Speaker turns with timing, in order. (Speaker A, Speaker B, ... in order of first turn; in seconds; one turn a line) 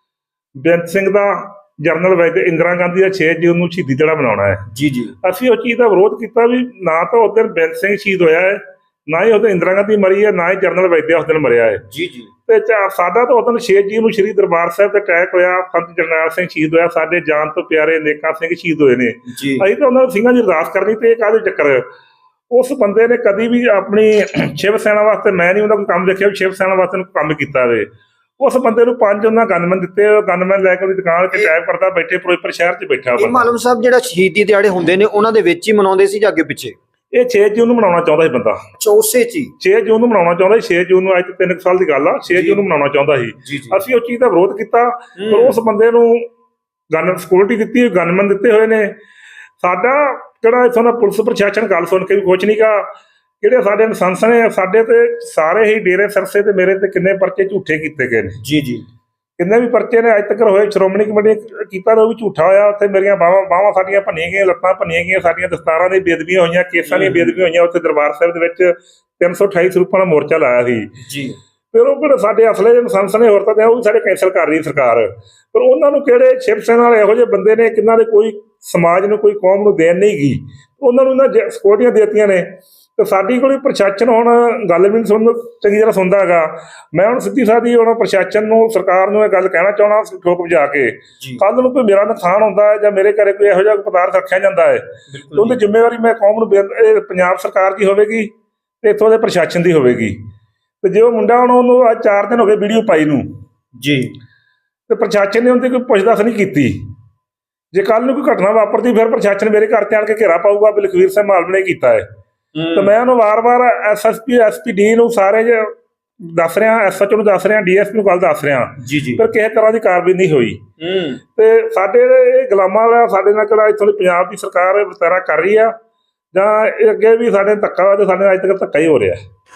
Speaker A: 0.6-4.7
Speaker B: 4.7-5.1
Speaker A: 5.2-11.8
Speaker B: 11.9-12.3
Speaker A: 12.5-21.8
Speaker B: 19.3-19.6
Speaker A: 22.5-27.9
Speaker A: 28.4-33.5
Speaker B: 33.2-36.7
Speaker A: 37.1-38.6
Speaker B: 38.8-39.5
Speaker A: 39.6-46.3
Speaker B: 42.3-42.6
Speaker B: 43.4-43.8
Speaker B: 45.2-45.6
Speaker A: 46.9-48.9
Speaker A: 49.6-52.9
Speaker A: 53.4-58.4
Speaker B: 58.4-58.8
Speaker A: 59.4-70.9
Speaker B: 66.9-67.4
Speaker B: 71.0-71.4
Speaker A: 71.7-98.3
Speaker B: 95.1-95.6
Speaker A: 98.8-100.2
Speaker A: 100.8-103.2
Speaker B: 103.7-104.1
Speaker A: 104.9-106.8
Speaker A: 107.7-112.0
Speaker B: 112.5-112.9
Speaker A: 112.7-120.7
Speaker B: 118.8-119.2
Speaker B: 120.8-121.2
Speaker A: 121.3-125.7
Speaker A: 126.3-129.2